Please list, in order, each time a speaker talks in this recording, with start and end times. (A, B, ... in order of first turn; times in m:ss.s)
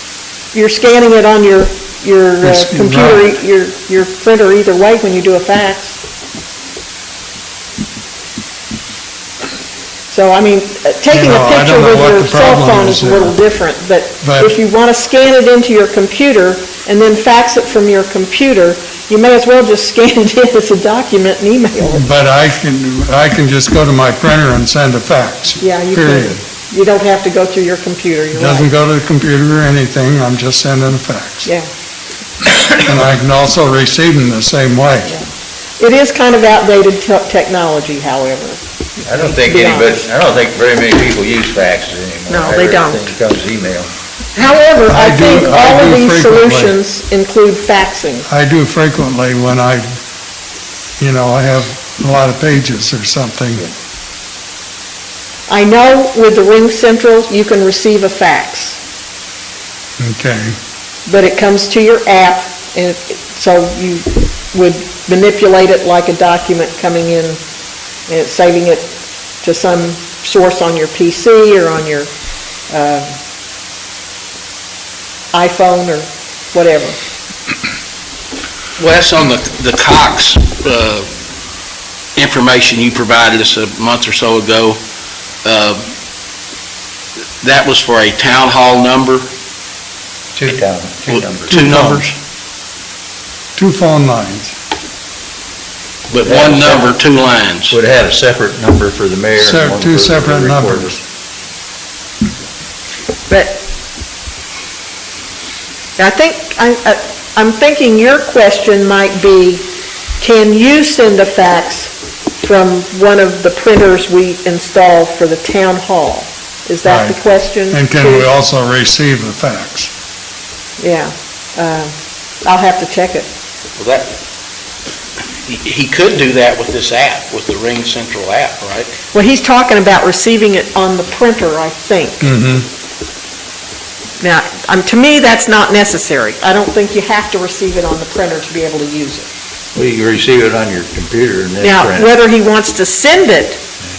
0:00.5-0:06.0 A
0:02.4-0:03.3 B
0:10.1-0:22.0 A
0:11.1-0:13.3 B
0:14.2-0:14.6 B
0:21.8-0:26.4 B
0:25.6-0:28.7 A
0:28.3-0:31.5 B
0:32.8-0:35.1 B
0:35.8-0:40.1 A
0:39.0-0:43.9 C
0:42.3-0:43.1 A
0:44.3-0:48.3 A
0:44.9-0:46.8 B
0:48.3-0:49.8 B
0:51.0-0:53.7 B
0:55.5-0:58.8 A
1:00.0-1:00.6 B
1:01.1-1:07.4 A
1:08.1-1:12.1 A
1:12.7-1:13.1 A
1:15.3-1:17.0 A
1:18.8-1:21.1 D
1:22.2-1:24.8 D
1:25.4-1:25.9 D
1:27.4-1:29.3 D
1:30.3-1:31.5 C
1:31.1-1:32.1 D
1:31.5-1:32.1 B
1:33.6-1:34.6 B
1:36.1-1:37.7 D
1:36.2-1:37.0 C
1:37.7-1:41.0 C
1:39.4-1:41.0 B
1:43.3-1:43.6 A
1:46.0-1:49.7 A
1:50.2-1:58.3 A
1:56.8-1:59.9 B
2:00.8-2:01.9 A
2:02.4-2:03.3 A
2:03.8-2:04.1 D
2:05.4-2:09.0 D
2:09.1-2:12.5 A
2:12.2-2:12.7 B
2:14.2-2:19.3 A
2:19.8-2:22.1 C
2:21.6-2:23.6 A